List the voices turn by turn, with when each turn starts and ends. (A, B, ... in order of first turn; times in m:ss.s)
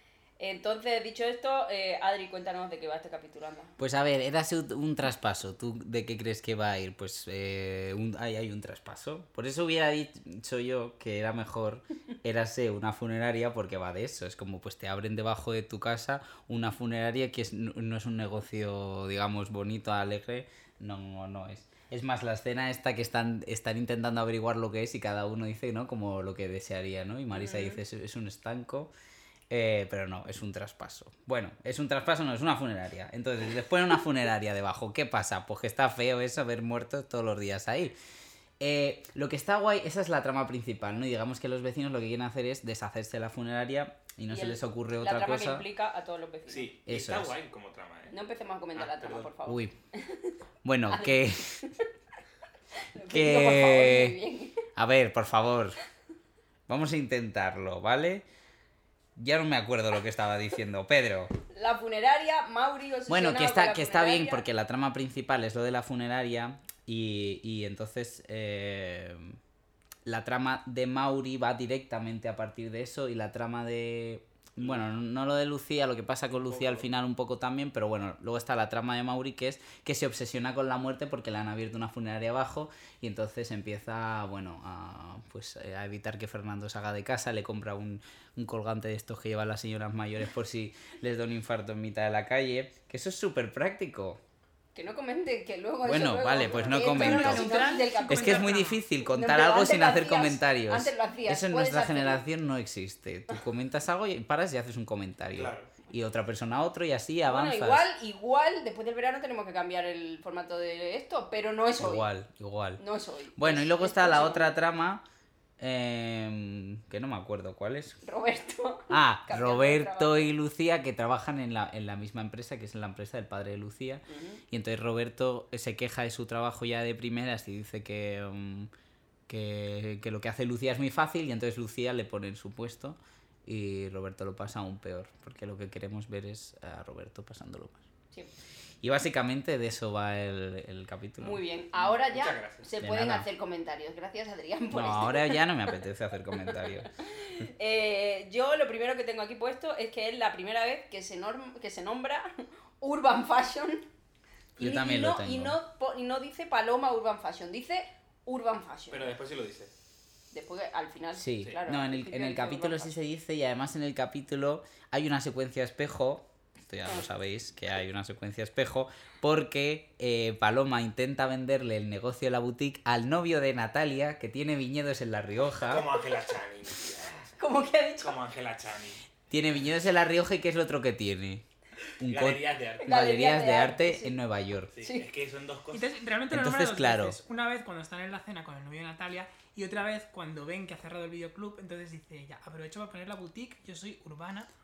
0:00.4-0:03.7 A
0:03.8-0:28.9 B
0:27.3-0:27.8 A
0:29.5-0:37.9 B
0:38.6-0:45.7 B
0:44.3-0:46.7 A
0:46.5-0:48.2 C
0:46.8-0:47.3 B
0:48.1-0:50.4 A
0:48.7-0:49.3 C
0:49.4-0:49.7 B
0:50.6-0:51.6 B
0:50.9-0:51.9 A
0:52.9-0:54.6 A
0:53.1-0:54.2 B
0:54.8-0:55.8 B
0:56.7-0:58.2 B
0:59.2-1:01.3 B
1:01.5-1:04.4 A
1:03.1-1:09.4 B
1:10.0-1:34.2 B
1:16.3-1:16.9 C
1:34.7-1:38.5 A
1:35.8-1:37.4 B
1:36.4-1:36.9 C
1:36.9-1:38.8 D
1:38.1-1:47.8 B
1:39.0-1:42.2 A
1:45.3-1:45.7 C
1:47.2-1:52.1 A
1:51.8-1:52.8 B
1:52.8-1:54.6 A
1:53.4-1:55.0 B
1:55.6-1:58.0 B
1:58.0-2:00.3 A
1:58.9-2:08.7 B
2:04.1-2:04.4 A
2:09.3-2:17.8 B
2:18.8-2:21.4 B
2:21.2-2:25.4 A
2:21.8-2:22.7 C
2:22.8-2:23.3 B
2:24.7-2:26.9 B
2:26.5-2:33.8 A
2:34.6-2:35.6 B
2:34.6-2:39.2 A
2:38.9-2:39.7 C
2:40.3-2:43.0 A
2:41.1-2:55.9 B
2:55.6-2:57.3 C
2:57.4-2:58.2 A
2:58.0-2:59.0 C
2:59.3-3:01.4 B
3:02.0-3:04.7 B
3:02.0-3:03.0 C
3:02.8-3:04.2 A
3:04.7-3:05.9 C
3:04.8-3:05.0 A
3:05.7-3:14.5 D
3:06.3-3:07.2 B